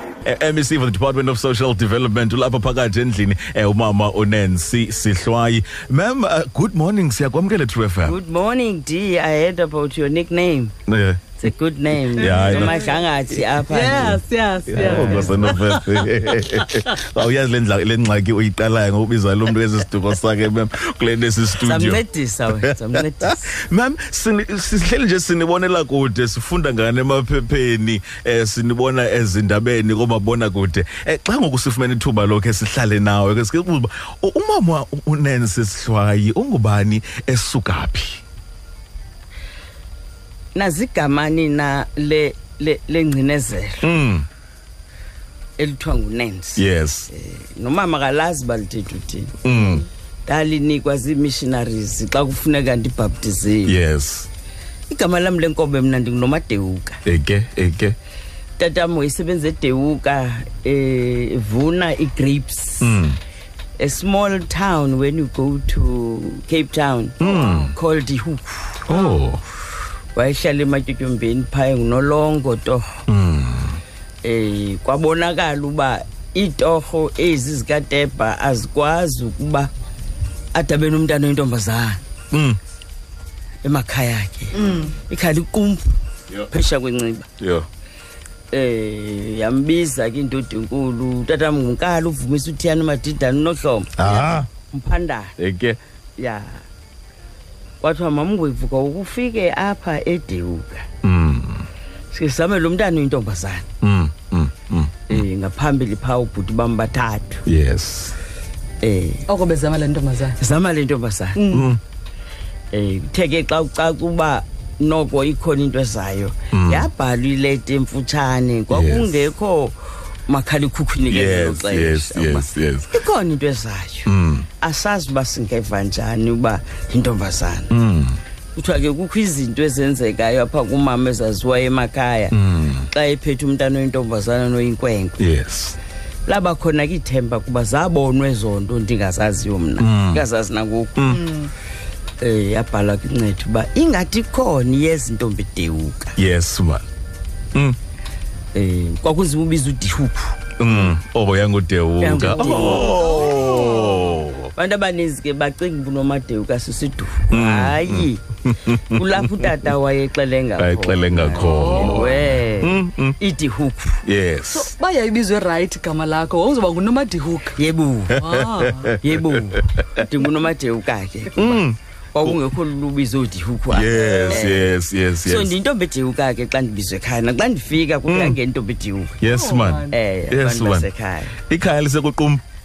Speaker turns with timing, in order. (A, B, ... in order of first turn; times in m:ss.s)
0:00.2-0:08.2 A
0:08.0-0:10.7 B
0:10.9-0:11.4 A
0:11.4-0:15.4 B
0:12.0-0:12.9 A
0:12.2-0:13.0 C
0:13.7-0:16.9 C
0:14.7-0:38.2 A
0:21.6-0:23.5 B
0:40.5-0:43.8 B
0:43.8-0:44.3 A
0:45.6-0:49.4 B
0:46.6-0:47.1 A
0:49.4-0:49.8 A
0:50.3-0:53.7 B
0:53.6-0:54.3 A
0:54.9-0:57.0 B
0:57.0-0:58.0 A
0:58.6-1:03.0 B
1:02.8-1:03.2 A
1:03.8-1:08.8 B
1:07.2-1:07.7 A
1:07.2-1:07.7 C
1:08.8-1:09.4 A
1:08.9-1:09.2 C
1:10.1-1:13.0 B
1:13.1-1:13.8 A
1:14.2-1:19.7 B
1:20.5-1:22.0 B
1:22.3-1:22.6 A
1:23.6-1:27.3 B
1:24.5-1:24.9 C
1:27.4-1:27.7 A
1:28.5-1:34.0 B
1:34.0-1:34.5 A
1:34.7-1:35.3 B
1:35.4-1:35.8 A
1:36.2-1:36.6 B
1:37.8-1:40.8 B
1:41.0-1:41.7 A
1:42.1-1:43.7 B
1:43.8-1:45.2 A
1:45.1-1:47.4 B
1:47.4-1:48.2 A
1:48.8-1:49.2 B
1:49.3-1:50.4 C
1:50.4-1:51.4 B
1:51.4-1:51.7 C
1:51.5-1:51.8 A
1:52.7-2:07.7 B
1:56.5-1:56.9 A
1:58.7-1:59.2 A
2:01.0-2:02.9 A
2:04.0-2:04.5 A
2:07.7-2:08.2 A
2:08.6-2:12.3 B
2:12.3-2:12.9 A
2:12.9-2:15.2 B
2:15.2-2:15.8 A
2:16.3-2:21.2 B
2:19.8-2:20.2 A
2:21.0-2:21.2 A
2:21.1-2:21.5 C
2:22.2-2:26.2 B
2:26.2-2:26.8 A
2:28.5-2:30.5 B
2:30.6-2:34.5 A
2:32.0-2:33.0 B
2:32.2-2:34.2 C
2:34.5-2:38.2 B
2:37.3-2:39.7 A
2:38.9-2:44.0 B
2:40.6-2:43.2 A
2:41.3-2:42.2 C
2:44.0-2:44.7 A
2:44.5-2:47.6 C
2:47.6-2:48.2 B
2:48.1-2:50.0 A
2:48.2-2:49.0 C
2:49.0-2:51.6 B
2:51.3-2:52.4 A
2:52.1-2:54.7 B
2:53.7-2:55.5 A
2:53.9-2:54.4 C
2:55.2-2:59.2 B
2:58.1-2:58.4 A
2:59.2-3:00.9 A
2:59.2-2:59.9 C
2:59.9-3:01.4 B
3:01.4-3:02.4 A